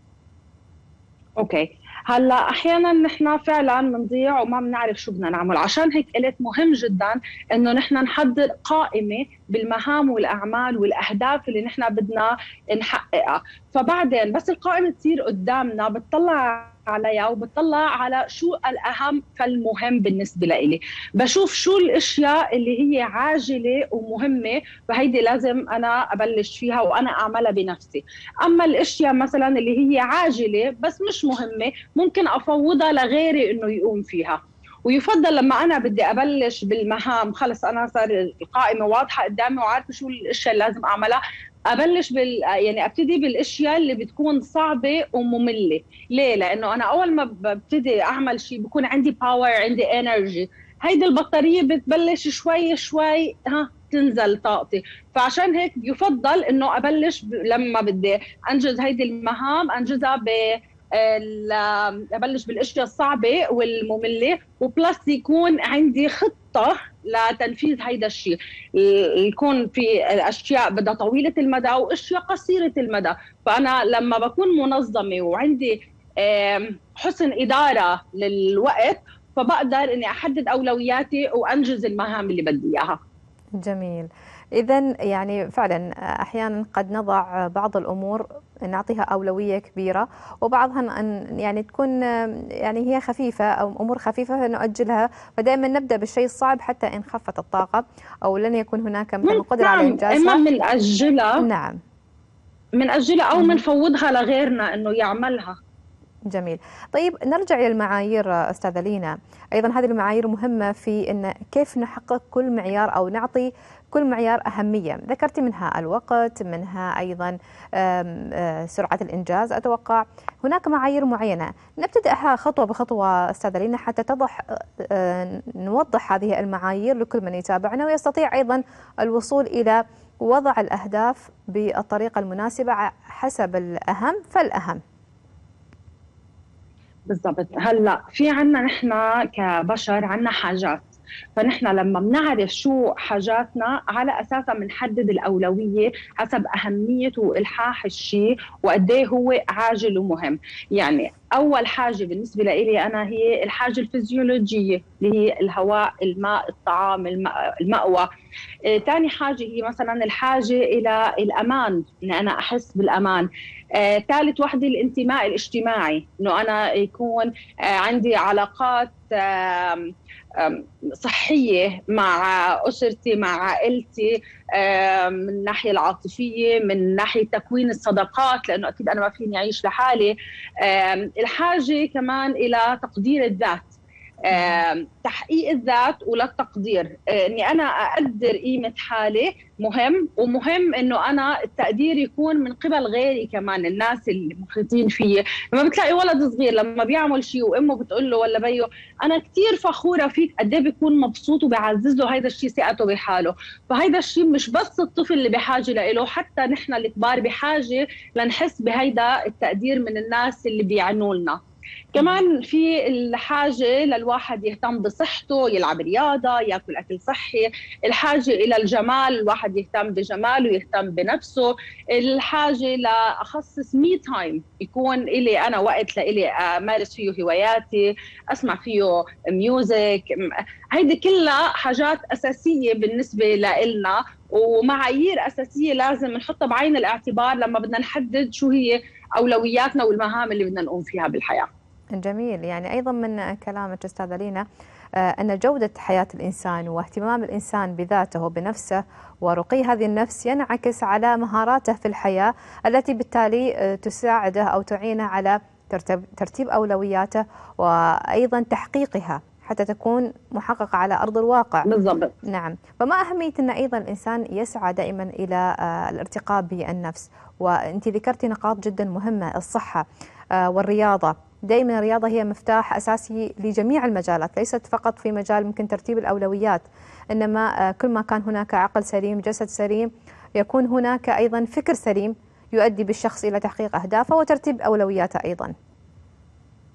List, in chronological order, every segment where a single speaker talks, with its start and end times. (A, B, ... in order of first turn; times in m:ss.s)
0:01.4-1:23.0 A
1:23.6-1:32.0 B
1:32.6-1:40.4 B
1:39.2-1:41.4 A
1:41.4-1:41.8 B
1:42.8-1:45.6 A
1:43.4-1:43.6 B
1:46.3-2:14.8 B
2:17.1-2:38.1 A
2:38.7-3:03.8 A
3:04.3-3:31.4 A
3:04.3-3:04.6 B
3:31.9-4:01.5 A
4:02.0-4:04.4 B
4:05.0-4:21.7 B
4:21.6-4:22.1 A
4:22.2-4:29.8 B
4:30.4-4:45.5 B